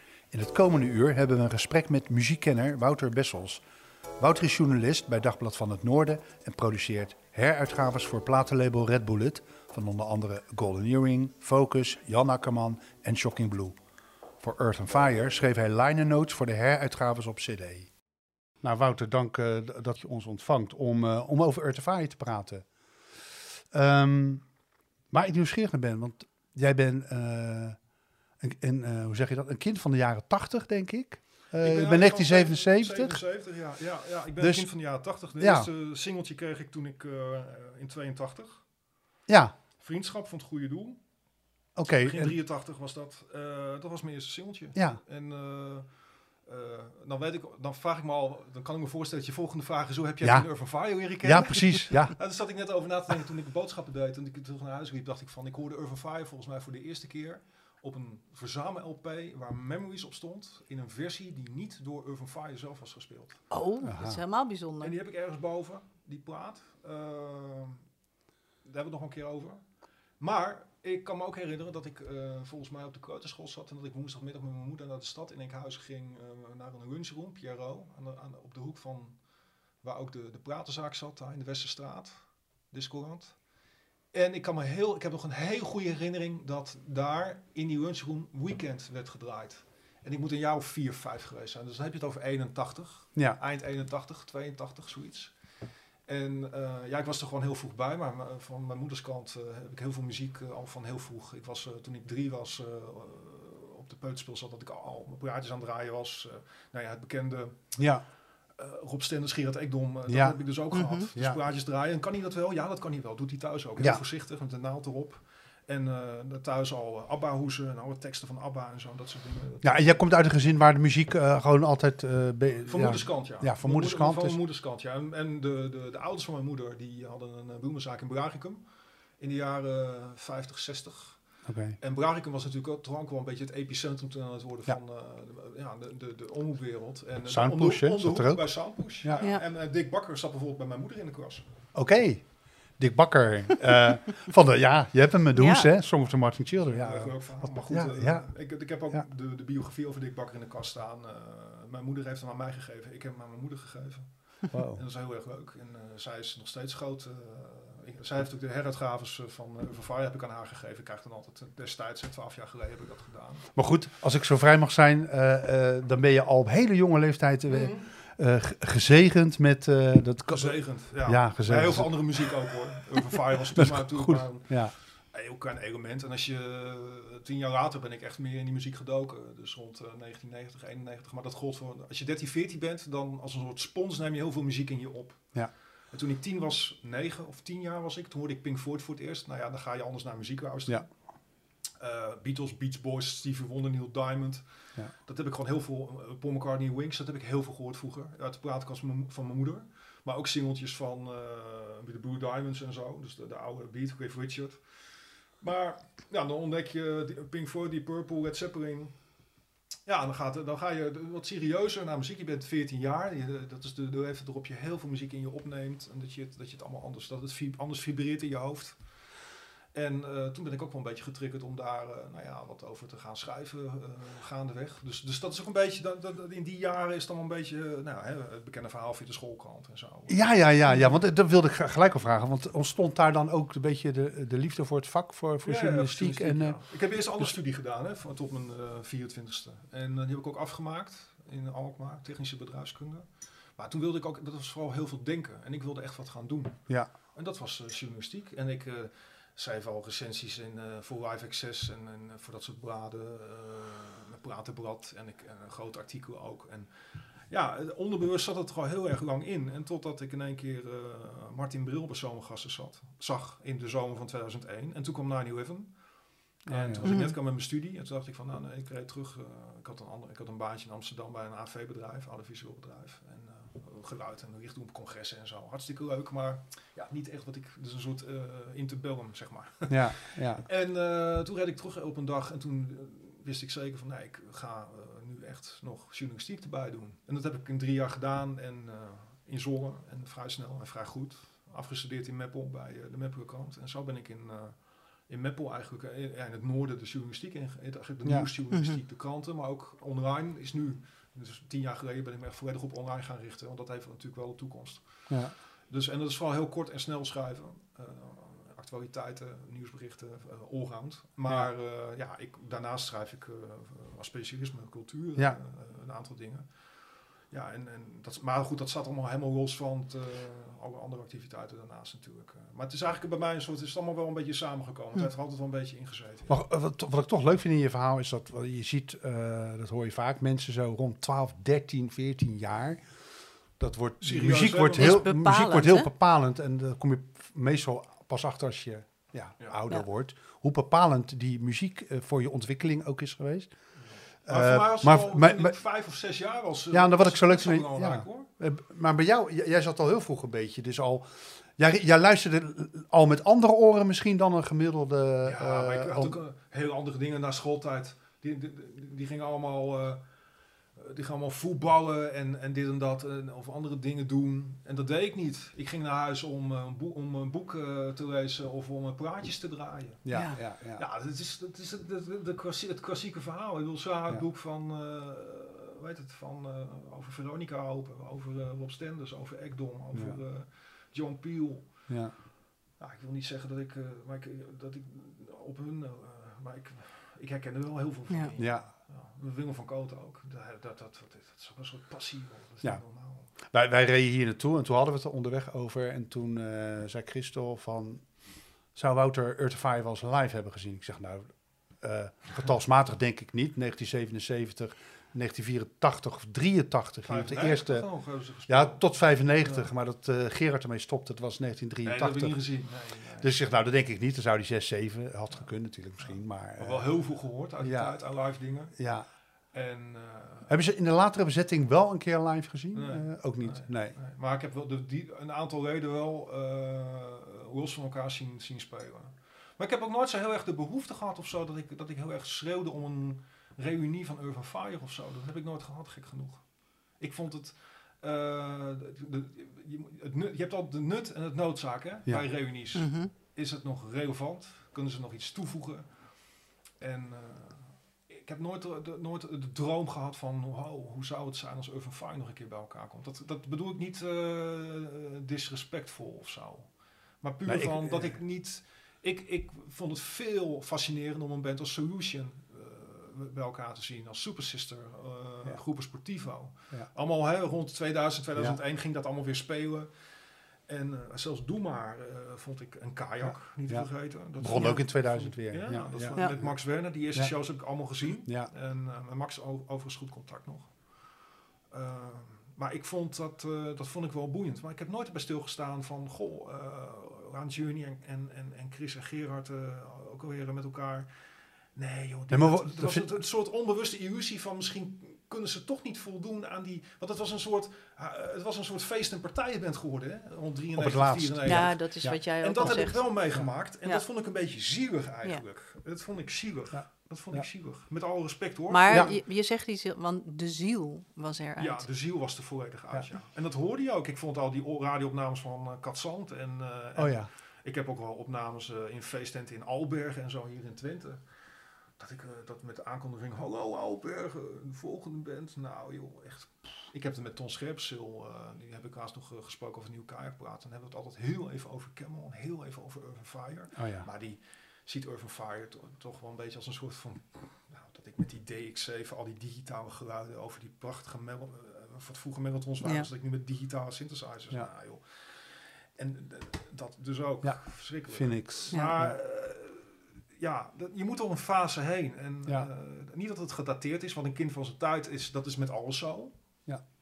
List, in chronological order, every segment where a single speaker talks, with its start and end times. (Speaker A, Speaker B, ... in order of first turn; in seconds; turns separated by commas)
Speaker A: 0.3-3.6, Speaker A: 4.2-13.8, Speaker A: 14.4-17.9, Speaker A: 18.6-24.5, Speaker A: 25.1-27.8, Speaker A: 28.4-33.2, Speaker B: 31.6-38.6, Speaker A: 34.4-35.7, Speaker A: 39.3-39.5, Speaker B: 39.8-41.0, Speaker A: 41.8-42.4, Speaker B: 42.0-45.9, Speaker A: 44.8-45.0, Speaker B: 46.4-63.5, Speaker A: 50.2-50.5, Speaker A: 51.2-52.2, Speaker C: 63.5-65.0, Speaker A: 63.8-64.2, Speaker B: 64.8-67.8, Speaker B: 68.7-69.6, Speaker B: 70.2-79.2, Speaker B: 79.8-83.4, Speaker B: 84.1-95.3, Speaker B: 96.1-107.8, Speaker A: 107.8-108.0, Speaker B: 108.5-120.0, Speaker A: 110.1-110.5, Speaker C: 110.7-111.1, Speaker A: 111.1-111.4, Speaker A: 119.6-124.4, Speaker B: 122.7-128.7, Speaker B: 129.2-141.5, Speaker A: 131.4-131.8, Speaker A: 137.3-139.3, Speaker A: 141.7-149.0, Speaker C: 145.3-145.7, Speaker B: 146.6-163.6, Speaker A: 154.5-154.8, Speaker A: 163.5-173.0, Speaker B: 170.3-190.9, Speaker A: 173.6-174.8, Speaker B: 191.8-209.1, Speaker B: 209.9-218.8, Speaker B: 219.7-230.8, Speaker A: 230.1-237.3, Speaker B: 235.4-326.4, Speaker A: 266.5-267.0, Speaker C: 266.8-267.2, Speaker A: 279.7-280.5, Speaker A: 298.1-298.3, Speaker C: 298.5-298.8, Speaker A: 305.1-305.4, Speaker A: 311.2-311.5, Speaker A: 326.3-332.9, Speaker A: 333.6-343.5, Speaker B: 334.0-335.1, Speaker C: 334.8-335.9, Speaker B: 343.8-348.3, Speaker A: 344.3-345.6, Speaker A: 346.7-356.2, Speaker B: 355.2-360.0, Speaker B: 360.8-370.1, Speaker A: 370.0-370.8, Speaker C: 370.1-370.4, Speaker B: 370.8-381.9, Speaker A: 379.9-380.2, Speaker A: 381.9-382.1, Speaker B: 382.8-393.3, Speaker A: 388.4-388.7, Speaker A: 392.6-407.9, Speaker B: 407.1-409.7, Speaker A: 408.5-419.1, Speaker B: 411.9-413.3, Speaker B: 415.3-418.8, Speaker B: 419.5-420.5, Speaker A: 420.5-424.0, Speaker B: 422.7-469.9, Speaker A: 442.1-442.4, Speaker C: 442.7-443.1, Speaker A: 457.5-458.2, Speaker B: 470.7-481.1, Speaker A: 473.2-478.5, Speaker B: 481.7-491.1, Speaker B: 491.8-509.1, Speaker A: 492.3-493.1, Speaker A: 500.8-503.5, Speaker C: 501.4-504.1, Speaker A: 506.7-507.5, Speaker C: 508.7-511.9, Speaker A: 508.9-509.2, Speaker B: 511.6-521.2, Speaker A: 517.0-517.3, Speaker B: 522.0-556.4, Speaker A: 533.8-534.1, Speaker A: 547.4-549.2